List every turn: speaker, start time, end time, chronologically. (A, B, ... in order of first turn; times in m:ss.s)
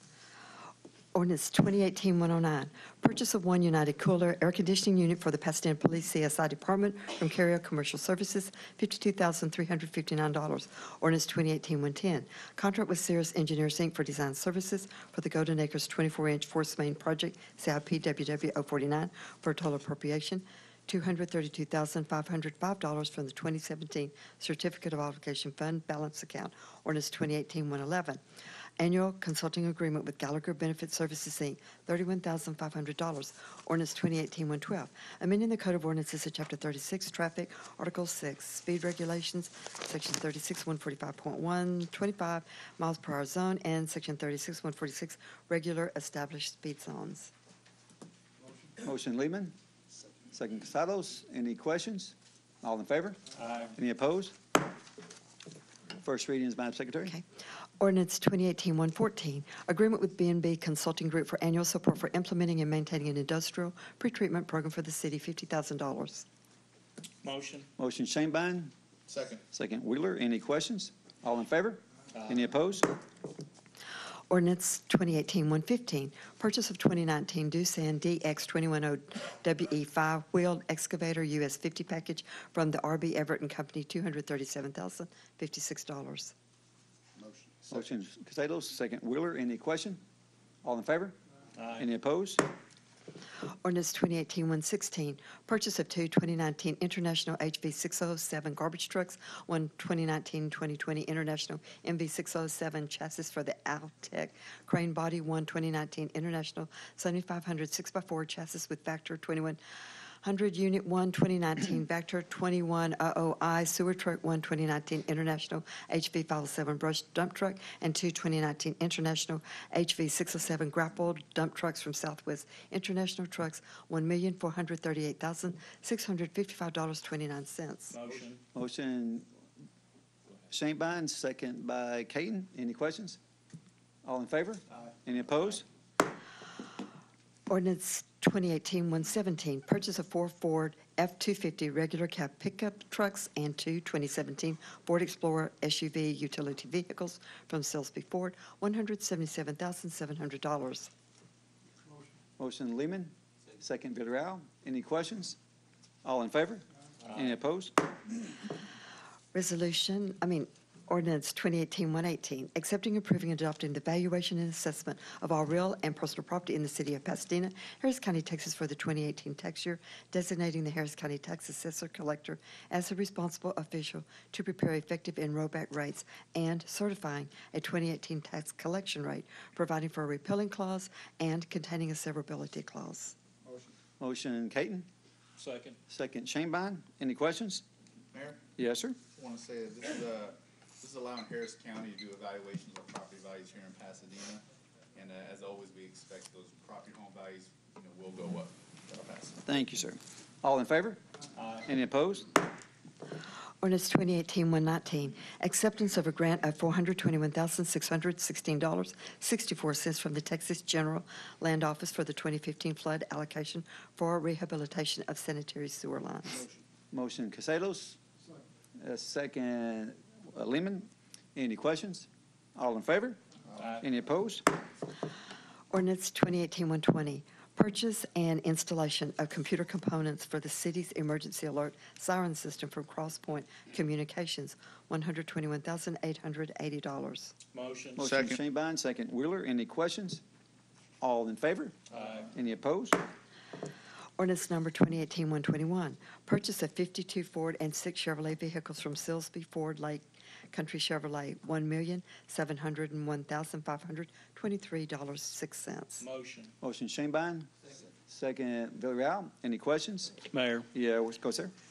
0:01.1-0:28.2 A
0:28.8-0:47.3 A
0:48.8-0:49.5 B
0:50.3-0:54.4 B
0:56.0-0:57.2 B
0:57.8-1:06.2 A
1:07.2-1:07.7 C
1:07.8-1:08.7 B
1:09.1-1:09.4 D
1:09.5-1:12.9 B
1:14.3-1:26.3 A
1:27.7-1:30.0 B
1:30.6-1:31.2 B
1:31.7-1:32.4 B
1:33.6-1:49.6 A
1:50.2-2:07.9 A
2:07.9-2:08.4 C
2:08.5-2:09.3 B
2:10.5-2:13.2 B
2:14.0-2:15.6 B
2:17.5-2:30.9 A
2:32.4-2:35.4 B
2:36.0-2:37.7 B
2:39.3-3:03.1 A
3:04.0-3:04.9 B
3:05.4-3:05.8 C
3:05.9-3:07.6 B
3:08.1-3:08.4 D
3:08.6-3:09.0 B
3:09.1-3:14.4 D
3:14.9-3:19.4 D
3:19.4-3:21.0 B
3:21.6-3:22.3 B
3:23.6-3:36.5 A
3:36.9-3:38.0 B
3:38.8-3:44.4 B
3:45.7-3:57.3 A
3:57.5-3:58.0 C
3:58.0-4:00.2 B
3:58.0-3:58.4 D
4:01.0-4:03.0 B
4:04.2-4:16.0 A
4:16.0-4:16.5 C
4:16.6-4:17.5 B
4:18.0-4:20.2 B
4:20.3-4:20.7 C
4:20.7-4:21.5 B